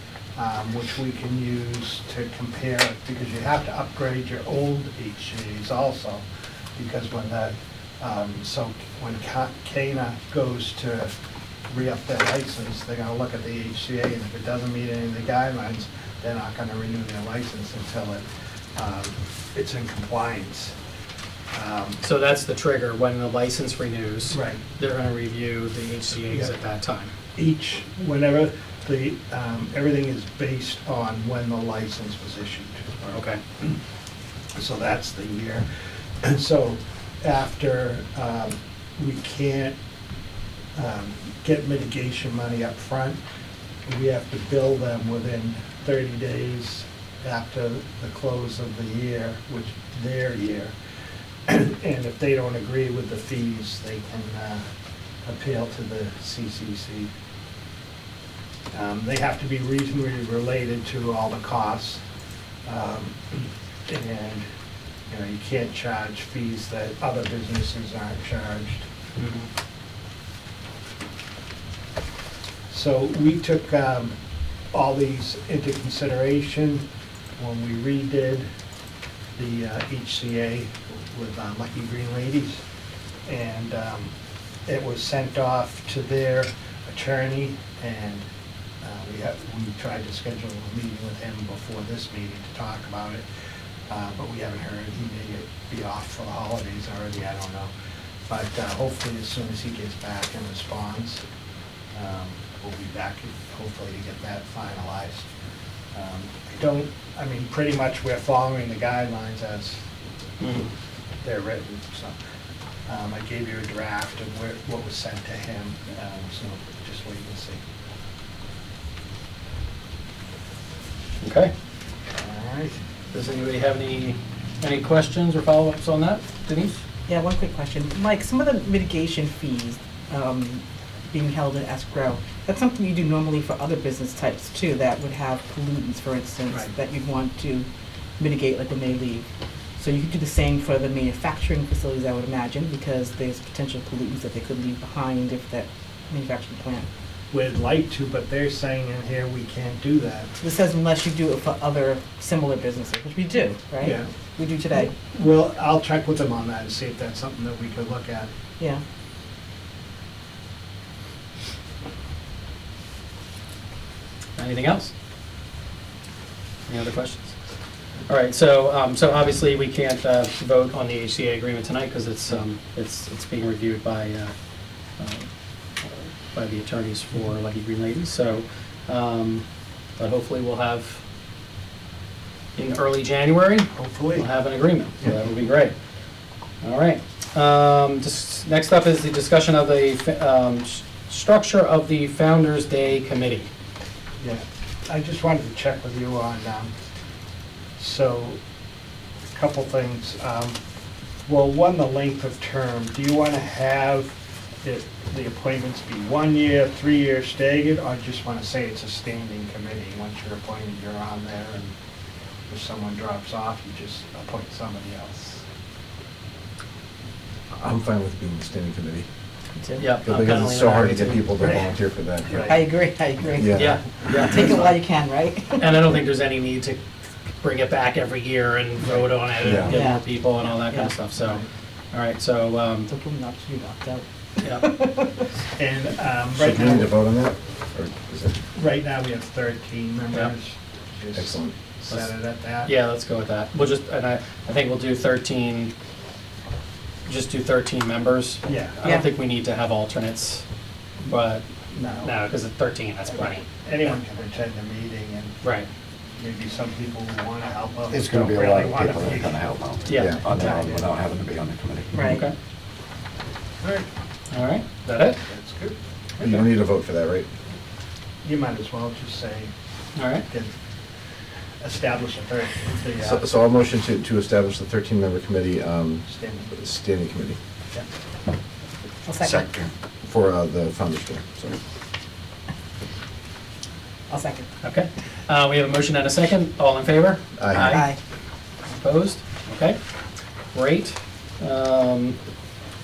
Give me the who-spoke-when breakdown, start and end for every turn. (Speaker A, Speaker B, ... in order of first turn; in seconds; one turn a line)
Speaker A: 0.4-6.2
Speaker A: 6.8-11.1
Speaker A: 11.7-18.2
Speaker A: 18.8-20.7
Speaker A: 21.5-22.0
Speaker B: 22.0-27.1
Speaker A: 24.3-24.6
Speaker A: 27.4-33.7
Speaker B: 33.1-33.4
Speaker A: 34.5-35.7
Speaker A: 36.2-39.8
Speaker A: 40.7-43.2
Speaker A: 43.9-50.7
Speaker A: 51.5-54.7
Speaker A: 55.2-57.1
Speaker A: 58.7-62.0
Speaker A: 62.6-64.5
Speaker A: 65.1-68.9
Speaker B: 69.2-69.5
Speaker A: 72.7-74.2
Speaker A: 74.7-76.8
Speaker A: 77.4-78.5
Speaker A: 79.4-82.6
Speaker A: 83.3-84.1
Speaker A: 84.7-88.3
Speaker A: 88.8-93.2
Speaker A: 93.9-97.7
Speaker A: 98.3-101.2
Speaker A: 101.9-105.3
Speaker A: 105.9-109.8
Speaker B: 110.4-110.7
Speaker A: 111.2-112.2
Speaker A: 112.9-117.6
Speaker B: 121.2-121.5
Speaker A: 122.2-122.8
Speaker B: 123.1-126.8
Speaker C: 127.1-137.7
Speaker C: 138.2-139.2
Speaker C: 139.8-146.9
Speaker A: 147.3-150.3
Speaker C: 150.4-154.9
Speaker A: 153.8-154.1
Speaker A: 154.9-158.3
Speaker B: 164.4-164.9
Speaker B: 166.7-167.4
Speaker B: 168.1-174.3
Speaker B: 175.0-175.3
Speaker B: 175.8-179.4
Speaker B: 180.0-181.0
Speaker B: 182.6-185.7
Speaker A: 183.7-184.3
Speaker B: 186.6-193.5
Speaker A: 194.2-196.7
Speaker A: 197.8-198.4
Speaker A: 199.3-200.6
Speaker A: 201.2-211.8
Speaker A: 212.5-215.4
Speaker D: 217.5-219.1
Speaker C: 219.6-219.9
Speaker B: 219.8-221.4
Speaker D: 220.0-222.5
Speaker A: 221.4-221.7
Speaker A: 222.2-222.6
Speaker C: 222.5-225.7
Speaker D: 223.4-224.3
Speaker B: 223.5-224.7
Speaker B: 225.6-226.8
Speaker B: 227.4-232.9
Speaker E: 229.4-229.7
Speaker C: 229.7-230.0
Speaker C: 232.9-235.2
Speaker A: 235.6-237.0
Speaker D: 236.4-238.4
Speaker A: 238.6-242.7
Speaker D: 241.2-241.6
Speaker B: 242.7-245.7
Speaker B: 247.1-250.4
Speaker A: 248.4-248.9
Speaker B: 251.0-251.5
Speaker A: 251.7-252.3
Speaker B: 252.0-253.5
Speaker A: 253.2-255.3
Speaker B: 255.4-255.7
Speaker A: 256.2-260.9
Speaker E: 257.9-262.0
Speaker B: 259.9-260.7
Speaker D: 259.9-260.3
Speaker C: 261.9-262.2
Speaker B: 262.0-262.3
Speaker A: 263.6-263.9
Speaker B: 264.3-265.2
Speaker A: 265.2-265.8
Speaker D: 266.2-267.3
Speaker A: 268.2-269.5
Speaker B: 269.9-270.2
Speaker A: 271.6-273.2
Speaker D: 273.0-277.4
Speaker A: 276.1-276.5
Speaker C: 279.1-279.4
Speaker E: 279.2-279.7
Speaker D: 280.0-281.6
Speaker C: 284.1-284.5
Speaker B: 284.6-287.9
Speaker D: 287.4-287.8
Speaker C: 287.6-288.0
Speaker B: 288.7-289.8
Speaker B: 290.5-292.2